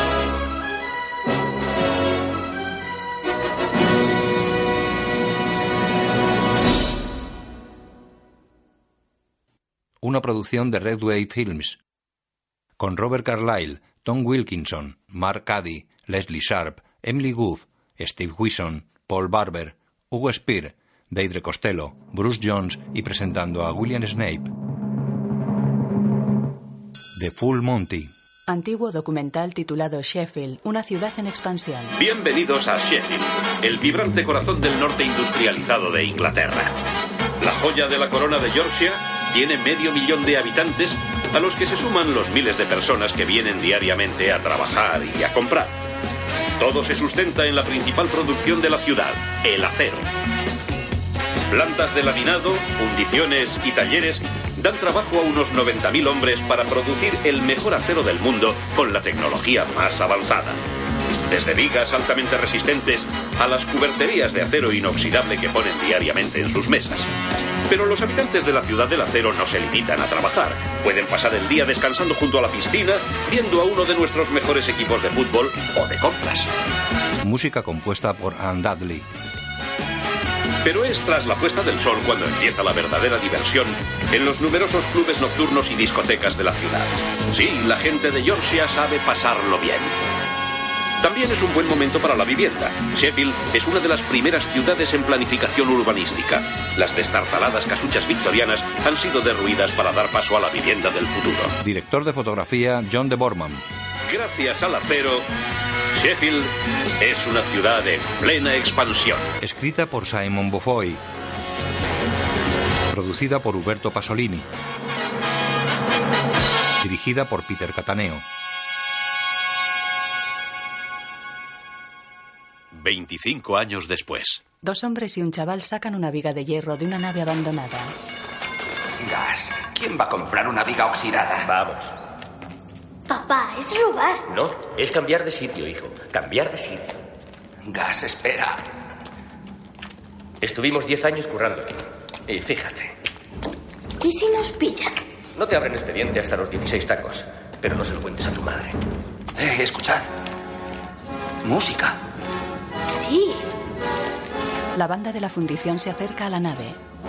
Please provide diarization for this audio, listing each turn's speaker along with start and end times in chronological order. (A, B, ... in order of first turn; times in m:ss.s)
0:10.0-0:11.8 A
0:12.8-0:24.5 A
0:27.2-0:28.1 A
0:28.5-0:32.0 B
0:32.0-0:36.7 C
0:37.4-0:45.8 C
0:46.6-0:50.1 C
0:51.5-1:00.6 C
1:01.3-1:07.1 C
1:07.7-1:16.5 C
1:17.2-1:19.1 A
1:20.6-1:30.0 C
1:31.0-1:41.5 C
1:41.6-1:43.6 A
1:44.1-1:45.3 C
1:45.9-1:49.3 C
1:49.4-1:51.0 A
1:52.9-1:54.5 A
1:56.8-1:58.2 A
2:02.7-2:04.4 C
2:04.6-2:07.9 B
2:09.0-2:11.5 D
2:11.4-2:11.9 E
2:13.1-2:14.2 F
2:14.3-2:17.0 E
2:17.6-2:18.6 D
2:20.4-2:22.9 E
2:24.0-2:24.9 F
2:25.4-2:28.8 E
2:29.4-2:30.1 D
2:31.4-2:32.0 D
2:32.9-2:33.4 F
2:34.7-2:36.8 B